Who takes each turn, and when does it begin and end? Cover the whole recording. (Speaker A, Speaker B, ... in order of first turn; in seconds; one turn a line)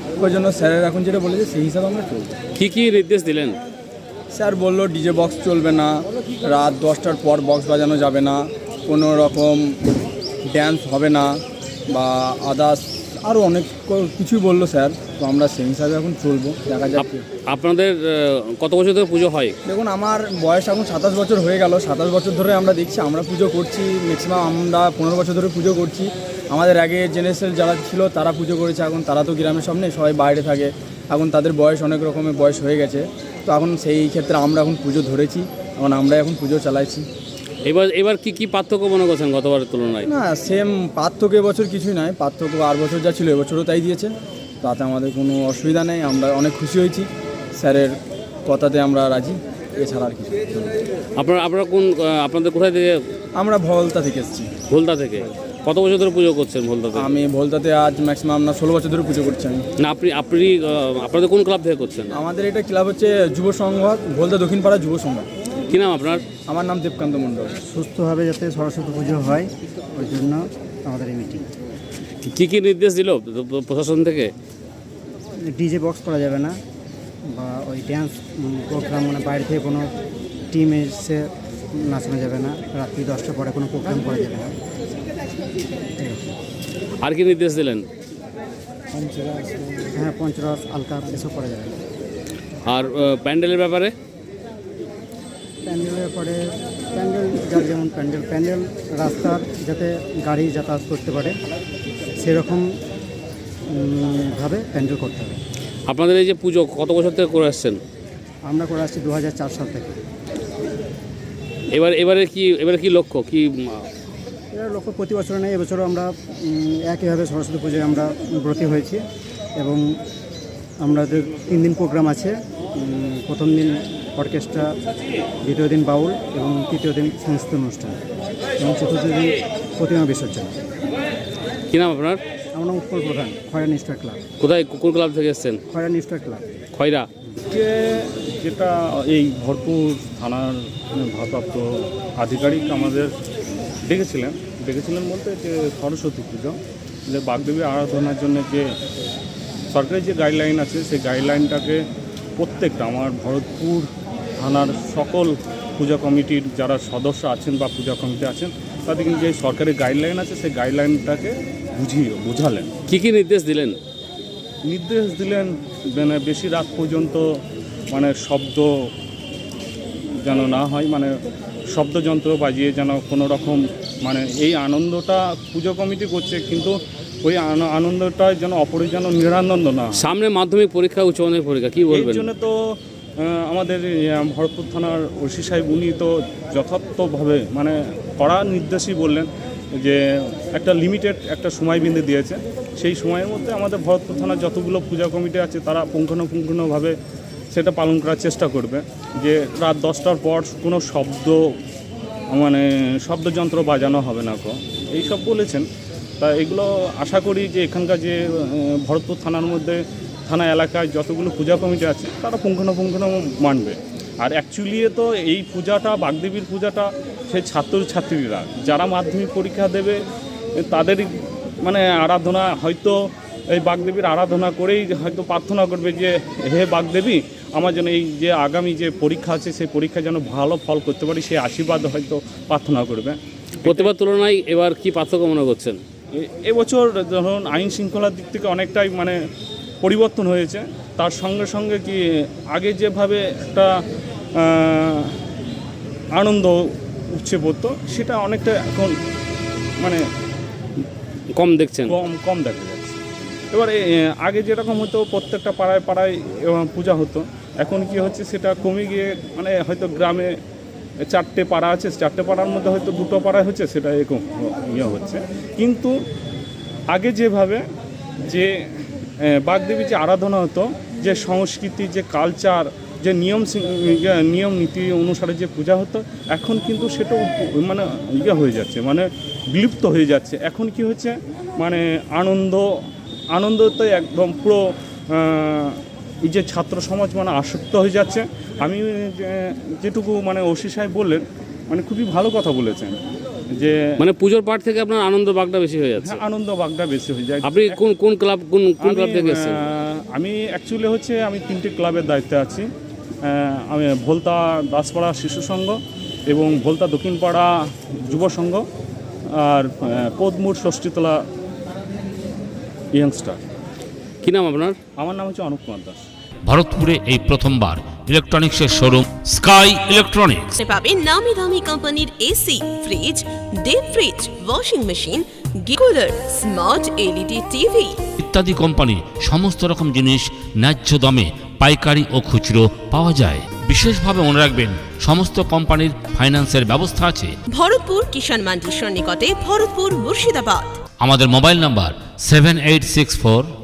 Speaker A: 0.2-2.3
Speaker B: 2.5-3.6
Speaker A: 4.3-9.8
Speaker A: 10.4-17.2
Speaker B: 16.9-19.6
Speaker A: 19.6-37.1
Speaker B: 37.6-40.1
Speaker A: 40.0-50.8
Speaker B: 51.1-53.0
Speaker A: 53.4-54.5
Speaker B: 54.7-57.1
Speaker A: 57.0-59.6
Speaker B: 59.8-62.2
Speaker A: 62.1-65.3
Speaker B: 65.7-66.3
Speaker A: 66.4-67.6
Speaker C: 67.6-71.5
Speaker B: 72.2-74.3
Speaker C: 75.5-76.6
Speaker C: 77.3-79.9
Speaker C: 80.5-84.5
Speaker C: 86.0-86.3
Speaker B: 87.0-87.9
Speaker A: 89.0-89.9
Speaker C: 90.0-91.8
Speaker B: 92.6-93.9
Speaker C: 95.6-101.4
Speaker C: 102.2-102.7
Speaker C: 103.7-105.4
Speaker B: 105.9-107.8
Speaker C: 108.5-110.0
Speaker B: 111.7-113.8
Speaker C: 114.5-119.0
Speaker C: 119.6-119.9
Speaker C: 120.8-124.7
Speaker C: 125.4-128.0
Speaker C: 128.6-130.5
Speaker B: 131.7-132.2
Speaker C: 132.5-134.2
Speaker B: 134.4-135.6
Speaker C: 135.7-136.4
Speaker B: 136.7-137.1
Speaker D: 137.4-143.1
Speaker D: 143.9-146.6
Speaker D: 147.1-148.7
Speaker D: 149.7-151.8
Speaker D: 152.4-162.7
Speaker B: 162.9-163.8
Speaker D: 164.7-167.2
Speaker D: 167.9-168.9
Speaker D: 170.2-171.1
Speaker D: 171.7-180.0
Speaker B: 180.0-182.3
Speaker D: 181.9-182.5
Speaker D: 183.2-189.3
Speaker D: 189.8-196.9
Speaker D: 197.5-201.4
Speaker D: 202.3-205.6
Speaker D: 206.2-220.0
Speaker D: 220.7-222.9
Speaker D: 223.5-233.9
Speaker B: 233.7-235.8
Speaker D: 236.1-239.2
Speaker D: 239.8-242.0
Speaker D: 242.5-243.7
Speaker D: 244.4-245.2
Speaker D: 246.2-246.6
Speaker D: 247.1-248.9
Speaker B: 251.3-251.9
Speaker D: 251.8-253.0
Speaker D: 253.5-260.3
Speaker D: 261.1-265.9
Speaker D: 266.9-267.6
Speaker D: 269.2-282.7
Speaker D: 283.3-292.9
Speaker B: 294.0-296.2
Speaker D: 296.0-297.8
Speaker B: 297.4-299.6
Speaker D: 298.8-302.7
Speaker D: 303.2-305.8
Speaker D: 306.3-307.5
Speaker D: 308.1-308.6
Speaker D: 309.4-311.2
Speaker D: 312.9-313.4
Speaker B: 314.2-314.8
Speaker D: 315.0-316.0
Speaker E: 316.4-320.5
Speaker F: 320.6-328.0
Speaker E: 328.2-337.4
Speaker F: 337.5-340.8
Speaker E: 341.0-343.5